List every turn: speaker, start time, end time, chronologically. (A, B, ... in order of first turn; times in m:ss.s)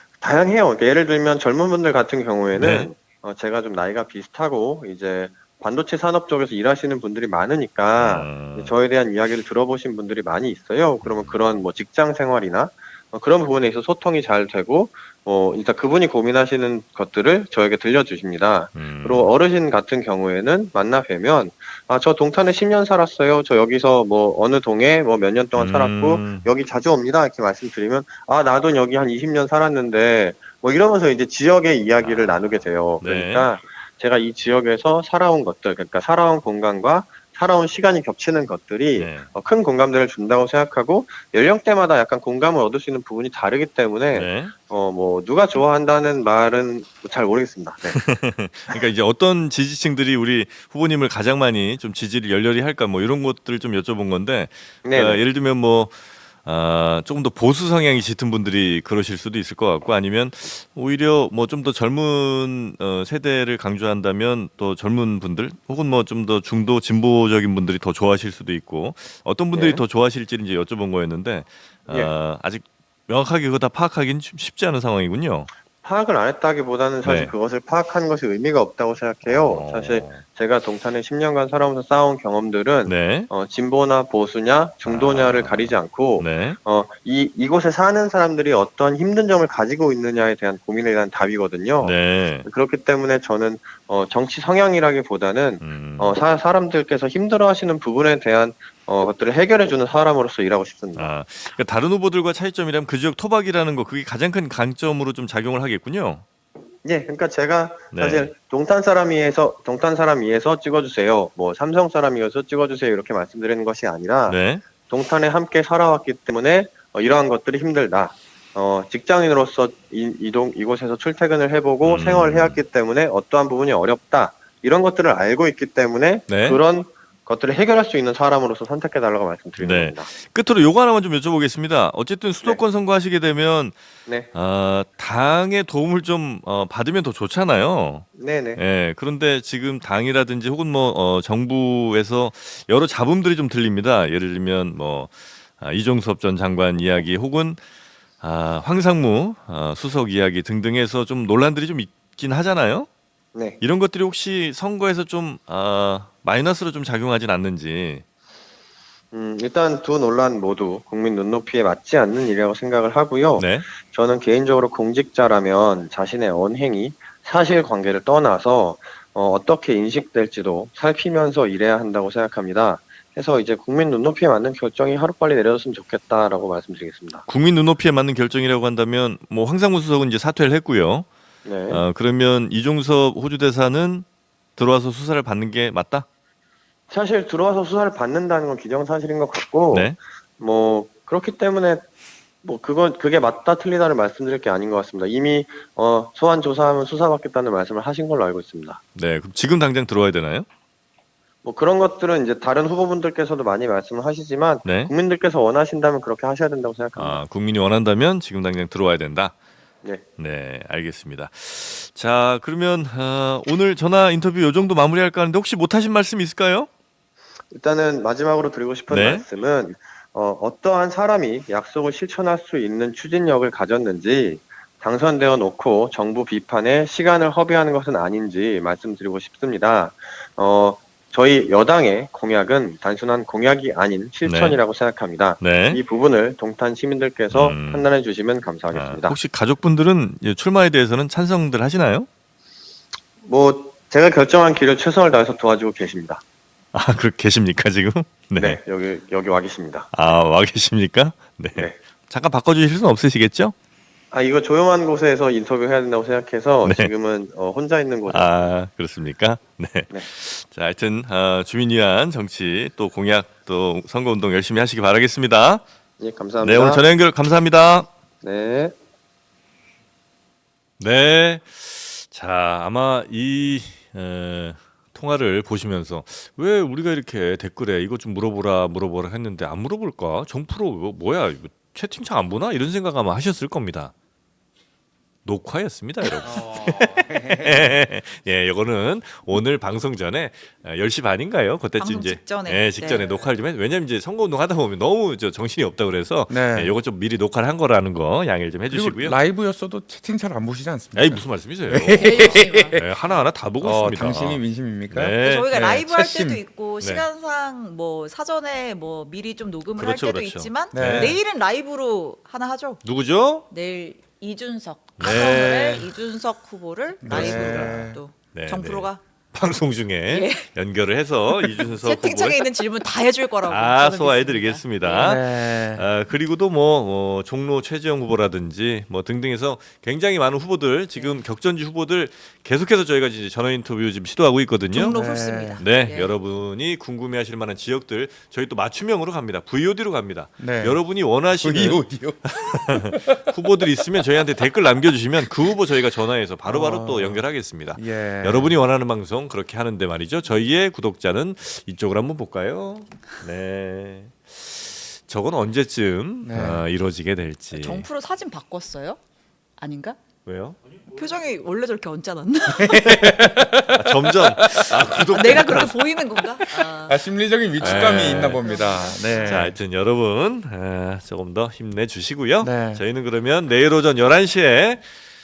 0:00.2-0:48.0 A
0:02.5-0:02.9 B
0:08.0-0:08.7 B
0:11.0-0:11.4 B
0:18.8-0:19.3 B
0:25.6-0:26.5 B
0:32.0-0:33.5 B
0:39.0-0:39.3 B
0:44.1-0:44.5 B
0:47.9-1:15.5 B
0:54.8-0:55.2 A
1:09.5-1:09.8 A
1:15.8-1:41.1 A
1:17.0-1:17.3 B
1:19.2-1:20.2 B
1:22.9-1:23.3 B
1:24.8-1:26.6 B
1:31.8-1:32.5 B
1:35.6-1:36.1 B
1:41.0-1:46.2 B
1:46.8-2:10.1 A
1:47.9-1:48.3 B
1:54.3-1:54.6 B
2:01.8-2:02.6 B
2:06.3-2:06.6 B
2:09.6-2:13.8 B
2:14.3-2:27.6 B
2:18.2-2:18.6 A
2:28.2-2:32.9 B
2:33.3-2:33.6 A
2:33.6-2:38.0 B
2:39.1-2:57.2 A
2:43.4-2:43.7 B
2:57.3-3:01.1 B
3:01.4-3:01.8 A
3:01.7-3:06.0 B
3:06.9-3:11.8 A
3:09.7-3:10.0 B
3:12.4-3:18.8 A
3:19.0-3:20.5 B
3:21.4-3:27.2 A
3:24.6-3:24.9 B
3:27.0-3:29.3 B
3:30.2-3:36.7 B
3:37.5-3:59.2 A
3:38.9-3:39.2 B
3:54.2-3:54.6 B
3:55.4-3:55.8 B
3:57.3-3:57.9 B
3:58.7-4:02.1 B
4:03.2-4:06.2 A
4:06.7-4:08.6 B
4:08.4-4:09.9 A
4:09.9-4:13.5 B
4:14.1-4:18.5 A
4:16.6-4:16.9 B
4:18.1-4:25.6 B
4:26.0-4:26.8 A
4:26.4-4:27.9 B
4:28.2-4:28.7 A
4:30.8-4:43.9 B
4:45.2-4:59.2 B
4:46.2-4:47.8 C
4:51.8-4:53.1 D
4:56.3-4:56.8 C
4:58.7-5:02.8 C
5:00.9-5:05.5 B
5:02.0-5:02.8 D
5:03.6-5:06.4 C
5:05.2-5:12.8 D
5:06.8-5:07.0 B
5:09.8-5:11.2 B
5:10.7-5:11.2 C
5:12.8-5:13.5 B
5:13.5-5:19.0 D
5:15.0-5:15.9 B
5:17.0-5:18.0 C
5:17.1-5:22.5 B
5:20.1-5:20.5 D
5:21.8-5:25.2 D
5:23.5-5:35.0 B
5:25.0-5:25.8 C
5:34.7-5:36.1 D
5:34.8-5:35.6 C
5:35.6-5:57.8 B
5:40.4-5:43.3 C
5:46.5-5:48.6 C
5:56.2-5:56.6 C
5:57.5-5:59.0 D
5:59.6-6:00.0 D
6:00.2-6:00.6 B
6:00.9-6:03.1 D
6:02.6-6:04.9 C
6:02.9-6:05.8 B
6:04.9-6:09.5 D
6:06.4-6:09.6 C
6:07.6-6:15.0 B
6:12.4-6:12.8 C